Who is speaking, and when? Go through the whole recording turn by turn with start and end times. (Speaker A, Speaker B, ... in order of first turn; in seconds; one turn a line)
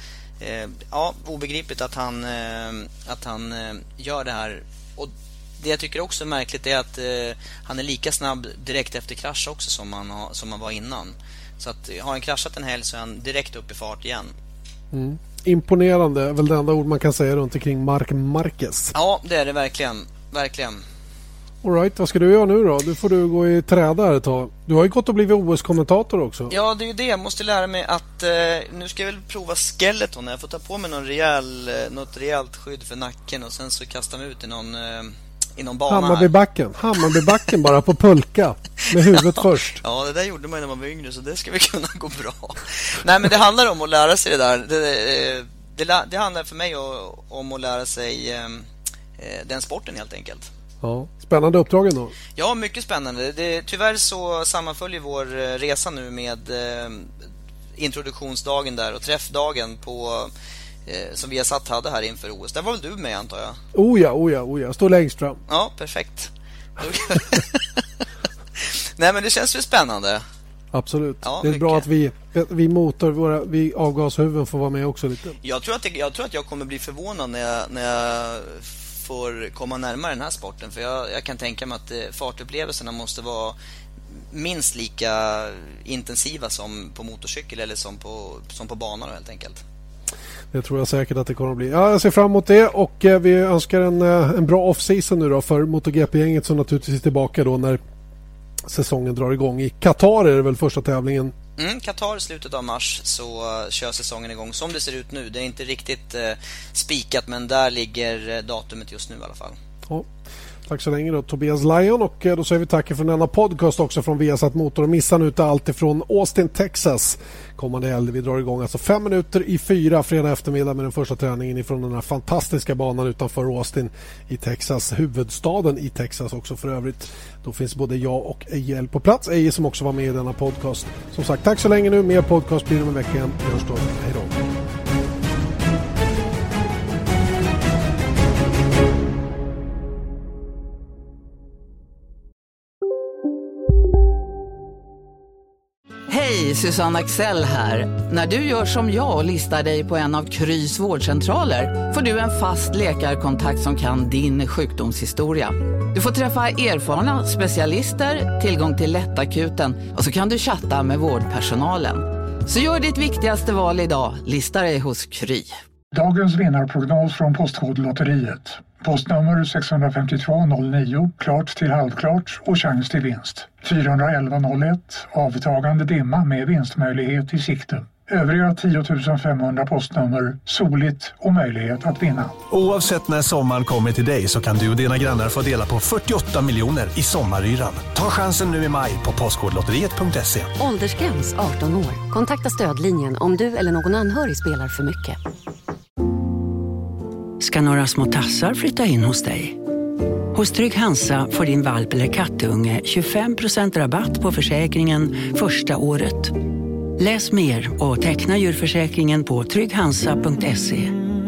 Speaker A: 0.4-14.3
Speaker B: 14.9-18.9
Speaker A: 18.9-20.8
Speaker B: 21.6-26.5
Speaker A: 26.5-36.3
Speaker B: 35.9-39.8
Speaker A: 38.9-39.2
Speaker A: 39.8-48.7
Speaker A: 49.2-50.5
Speaker B: 50.8-52.1
Speaker A: 52.4-57.1
Speaker A: 57.8-60.3
Speaker A: 60.9-63.6
Speaker B: 63.7-65.4
Speaker A: 65.5-67.8
Speaker A: 68.6-70.2
Speaker B: 70.7-75.4
Speaker A: 71.2-71.8
Speaker A: 75.4-83.5
Speaker A: 84.3-89.6
Speaker B: 90.5-97.8
Speaker B: 98.7-101.3
Speaker A: 101.6-109.5
Speaker B: 110.7-134.4
Speaker C: 146.1-165.6
Speaker D: 165.9-182.4
Speaker E: 182.5-190.5
Speaker F: 190.6-195.2
Speaker G: 197.4-199.6
Speaker G: 200.3-206.4
Speaker G: 207.0-210.9